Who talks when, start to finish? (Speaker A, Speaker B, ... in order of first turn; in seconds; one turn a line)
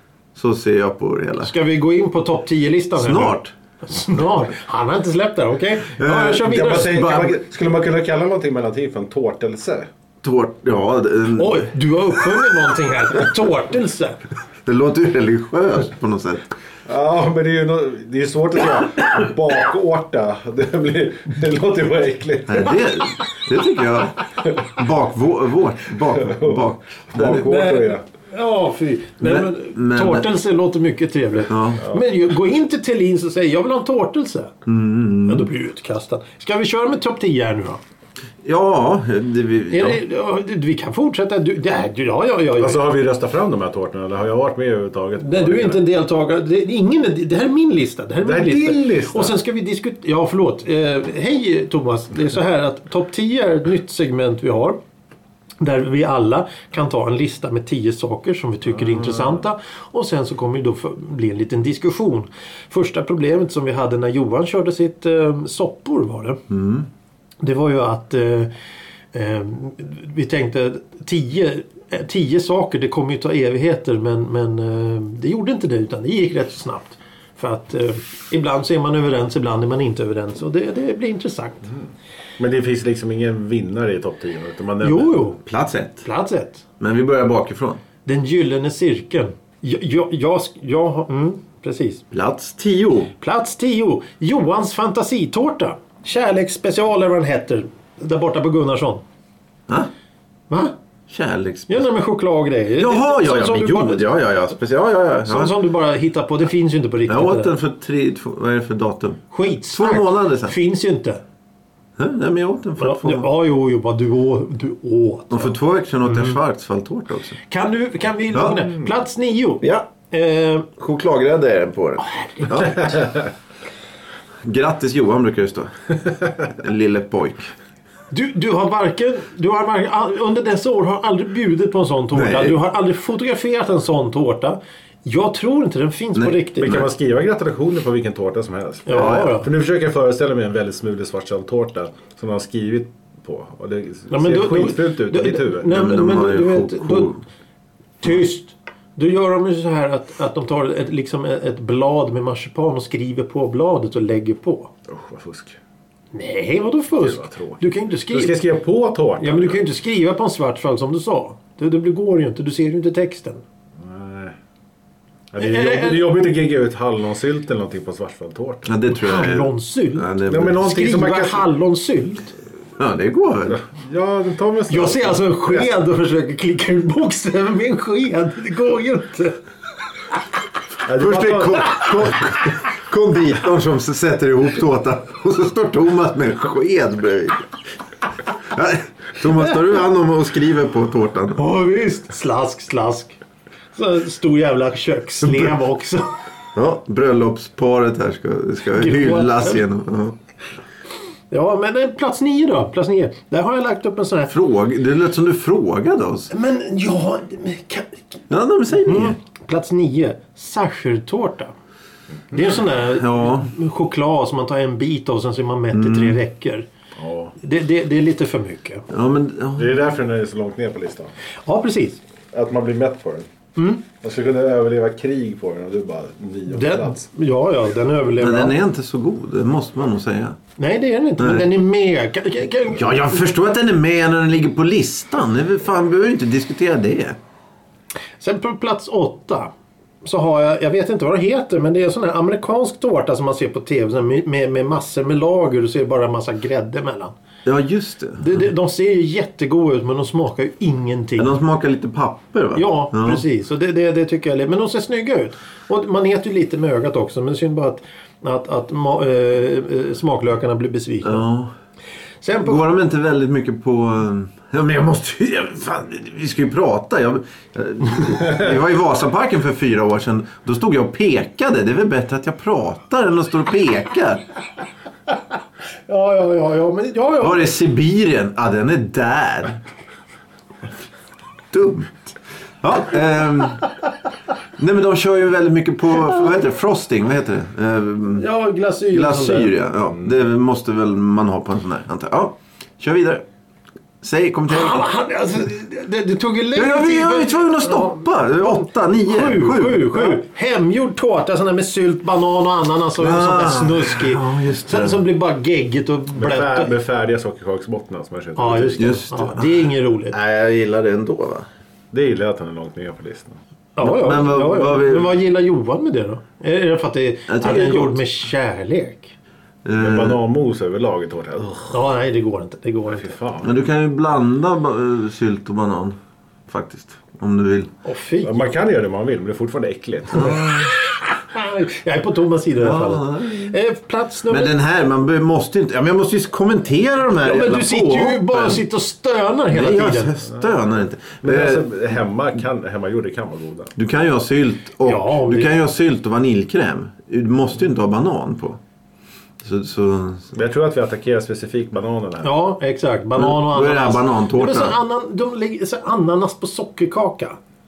Speaker A: 0.3-1.5
Speaker B: 1.4-7.0
Speaker A: 2.9-3.5
Speaker A: 6.0-7.4
Speaker C: 6.4-9.9
Speaker A: 10.2-11.6
Speaker B: 11.3-14.2
Speaker A: 14.6-16.5
Speaker C: 16.9-22.8
Speaker A: 22.5-27.5
Speaker C: 26.2-28.0
Speaker B: 27.4-34.5
Speaker A: 29.2-30.2
Speaker A: 31.5-31.8
Speaker A: 34.6-35.5
Speaker B: 35.2-37.8
Speaker A: 38.4-40.0
Speaker B: 39.7-42.8
Speaker C: 42.6-45.8
Speaker B: 45.2-54.8
Speaker C: 48.2-49.3
Speaker B: 55.6-66.4
Speaker C: 58.8-59.4
Speaker A: 66.5-66.9
Speaker B: 67.4-68.5
Speaker B: 69.1-81.7
Speaker C: 82.4-85.2
Speaker B: 84.8-85.4
Speaker A: 85.4-86.1
Speaker B: 86.0-86.6
Speaker A: 86.8-87.8
Speaker B: 88.0-92.0
Speaker A: 92.1-93.1
Speaker B: 93.2-99.0
Speaker B: 100.5-100.7
Speaker A: 101.1-101.9
Speaker B: 101.7-104.1
Speaker A: 102.8-105.5
Speaker B: 105.2-107.5
Speaker A: 107.1-110.5
Speaker B: 109.3-111.2
Speaker A: 112.0-113.3
Speaker B: 112.8-115.5
Speaker A: 115.3-117.4
Speaker B: 116.0-116.4
Speaker B: 117.5-120.7
Speaker A: 118.3-118.6
Speaker A: 119.6-119.9
Speaker A: 120.8-123.0
Speaker B: 122.0-123.0
Speaker A: 124.4-125.7
Speaker A: 126.4-127.5
Speaker B: 128.1-136.8
Speaker A: 132.1-132.6
Speaker A: 136.1-136.9
Speaker C: 136.6-145.7
Speaker B: 138.9-139.5
Speaker A: 138.9-139.3
Speaker B: 144.1-147.2
Speaker A: 145.7-147.2
Speaker B: 148.0-154.7
Speaker C: 154.9-155.6
Speaker B: 156.1-158.4
Speaker C: 157.0-159.6
Speaker B: 159.2-163.4
Speaker C: 163.8-164.3
Speaker C: 165.3-168.7
Speaker B: 165.4-166.1
Speaker A: 168.6-170.6
Speaker B: 168.9-172.3
Speaker C: 170.3-171.5
Speaker A: 172.8-173.6
Speaker C: 173.5-175.7
Speaker B: 174.7-179.4
Speaker C: 180.8-181.9
Speaker A: 181.0-187.5
Speaker A: 188.4-191.4
Speaker B: 191.3-193.2
Speaker B: 193.7-196.1
Speaker A: 196.5-200.2
Speaker B: 198.7-199.6
Speaker B: 201.3-204.3
Speaker A: 204.3-206.3
Speaker B: 206.3-208.2
Speaker A: 208.3-209.2
Speaker B: 208.7-211.5
Speaker B: 212.3-216.7
Speaker A: 212.9-213.5
Speaker A: 215.7-216.2
Speaker C: 216.9-217.3
Speaker B: 217.4-218.8
Speaker A: 218.9-219.7
Speaker C: 219.6-221.1
Speaker B: 221.4-222.0
Speaker C: 222.3-223.3
Speaker B: 223.6-223.8
Speaker C: 224.0-227.1
Speaker B: 226.5-228.6
Speaker A: 228.2-230.4
Speaker B: 230.6-233.1
Speaker A: 231.2-231.5
Speaker A: 232.7-237.2
Speaker B: 238.2-239.5
Speaker B: 240.0-247.2
Speaker A: 247.4-248.4
Speaker B: 248.2-251.4
Speaker A: 251.2-253.2
Speaker B: 252.5-261.2
Speaker A: 261.0-261.5
Speaker B: 262.2-262.6
Speaker A: 262.4-274.2
Speaker B: 275.9-277.5
Speaker A: 277.2-279.6
Speaker A: 281.5-283.7
Speaker A: 284.6-288.3
Speaker B: 288.1-289.5
Speaker A: 288.9-293.2
Speaker A: 294.0-294.8
Speaker B: 294.5-306.7
Speaker A: 296.5-300.2
Speaker A: 303.0-305.0
Speaker C: 306.1-309.0
Speaker B: 308.4-310.2
Speaker A: 308.8-311.5
Speaker C: 311.9-313.4
Speaker B: 313.8-319.1
Speaker A: 313.8-315.1
Speaker A: 317.3-318.0
Speaker A: 319.6-320.2
Speaker C: 319.8-321.8
Speaker B: 321.7-323.1
Speaker C: 322.9-323.5
Speaker A: 323.4-325.9
Speaker A: 326.5-327.7
Speaker B: 327.8-328.4
Speaker C: 328.2-330.5
Speaker B: 330.1-334.5
Speaker A: 332.6-333.5
Speaker A: 334.3-338.6
Speaker B: 337.2-340.1
Speaker A: 339.5-341.6
Speaker C: 340.2-343.7
Speaker A: 343.8-348.6
Speaker B: 344.8-345.5
Speaker A: 349.4-350.3
Speaker C: 350.3-352.3
Speaker B: 352.2-357.4
Speaker A: 353.1-354.8